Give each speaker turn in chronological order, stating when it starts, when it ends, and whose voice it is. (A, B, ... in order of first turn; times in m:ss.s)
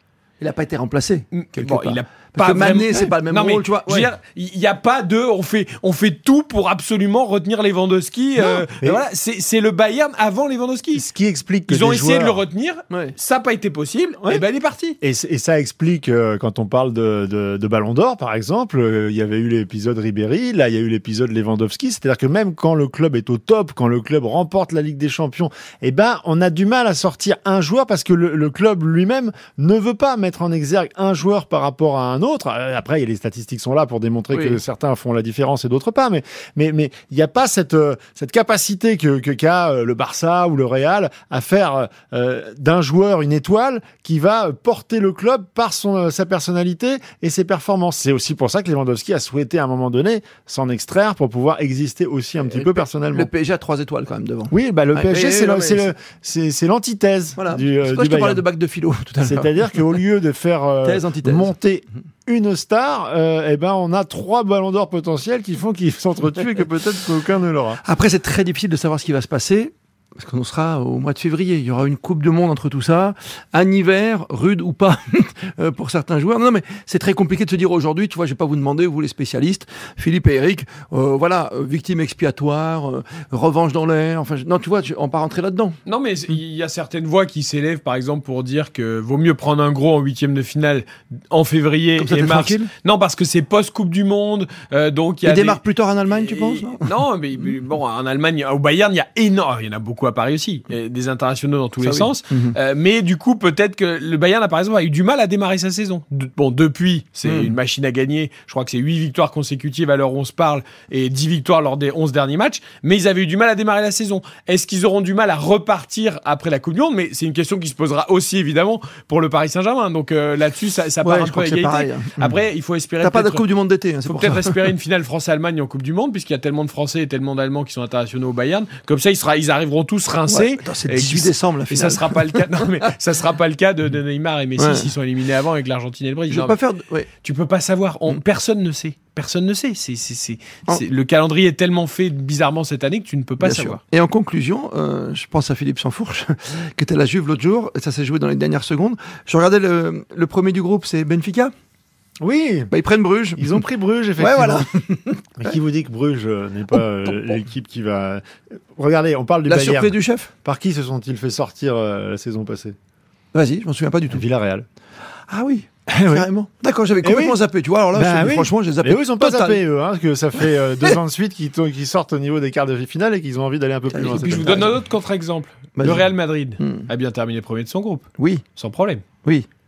0:00.4-0:04.1 A
0:01.3-0:11.1 B
0:08.4-0:08.6 A
0:10.9-0:12.4 C
0:11.7-0:15.0 B
0:15.0-0:53.3 C
0:34.3-0:34.6 A
0:52.4-0:55.9 A
0:54.5-0:58.4 C
0:57.4-1:00.0 A
0:59.2-1:07.8 C
1:00.8-1:01.6 A
1:07.8-1:25.8 A
1:25.9-2:03.4 B
1:32.0-1:32.7 A
1:35.2-1:36.9 A
1:41.8-1:42.6 A
1:47.2-1:47.6 A
2:01.0-2:02.3 A
2:03.0-2:04.7 A
2:04.0-2:16.6 B
2:10.3-2:12.5 A
2:14.6-2:14.9 A
2:16.3-2:17.1 A
2:17.2-2:23.8 B
2:23.4-2:31.5 A
2:32.2-2:32.7 C
2:32.7-2:33.6 A
2:33.4-2:34.7 C
2:34.2-2:35.5 A
2:35.4-2:38.2 C
2:38.8-2:42.8 C
2:39.5-2:40.3 A
2:43.3-2:44.2 A
2:44.1-2:44.6 C
2:45.3-2:49.6 A
2:45.9-2:46.3 C
2:47.0-2:47.4 C
2:47.9-2:54.7 C
2:50.4-2:50.9 A
2:53.9-2:54.8 A
2:54.0-2:58.0 B
2:55.8-2:56.9 A
2:58.2-2:58.4 A
2:58.6-2:59.0 B